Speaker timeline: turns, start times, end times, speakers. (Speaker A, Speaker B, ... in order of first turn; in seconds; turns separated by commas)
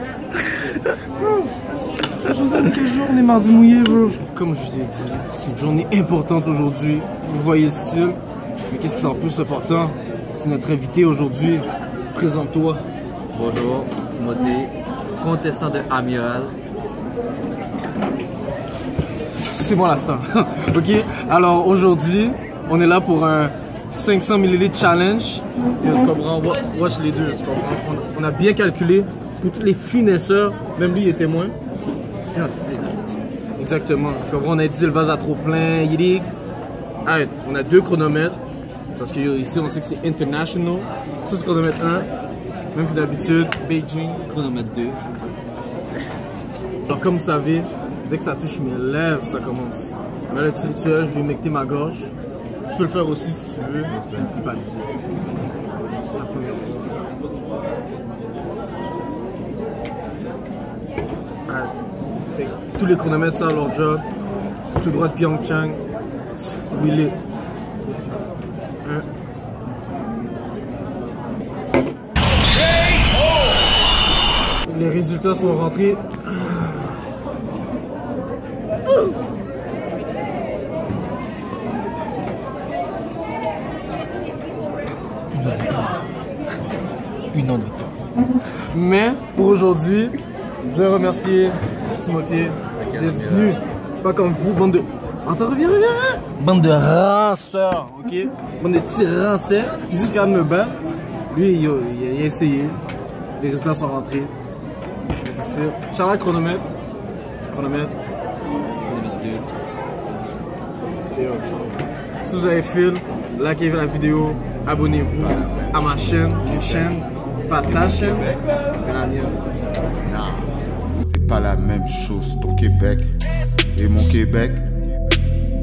Speaker A: 0.5-1.5, Speaker A: 2.1-12.8, Speaker B: 13.3-16.6, Speaker A: 19.3-31.5, Speaker B: 32.2-33.0, Speaker A: 33.6-36.3, Speaker A: 37.0-38.4, Speaker A: 39.0-42.1, Speaker A: 42.7-44.2, Speaker B: 44.3-45.0, Speaker A: 46.9-52.1, Speaker A: 52.7-54.9, Speaker B: 53.9-54.3, Speaker A: 55.9-57.0, Speaker A: 61.5-61.7, Speaker A: 62.3-64.0, Speaker A: 64.8-65.8, Speaker A: 66.3-67.2, Speaker A: 74.6-77.0, Speaker A: 85.3-85.9, Speaker A: 87.3-87.9, Speaker A: 88.7-100.8, Speaker B: 92.7-93.6, Speaker A: 101.3-102.8, Speaker A: 103.4-104.3, Speaker A: 105.2-106.7, Speaker A: 107.5-107.9, Speaker B: 108.8-109.5, Speaker A: 111.1-111.5, Speaker A: 112.2-119.4, Speaker C: 115.1-117.0, Speaker C: 117.6-118.4, Speaker C: 120.0-120.5, Speaker C: 121.0-123.2, Speaker C: 123.7-124.9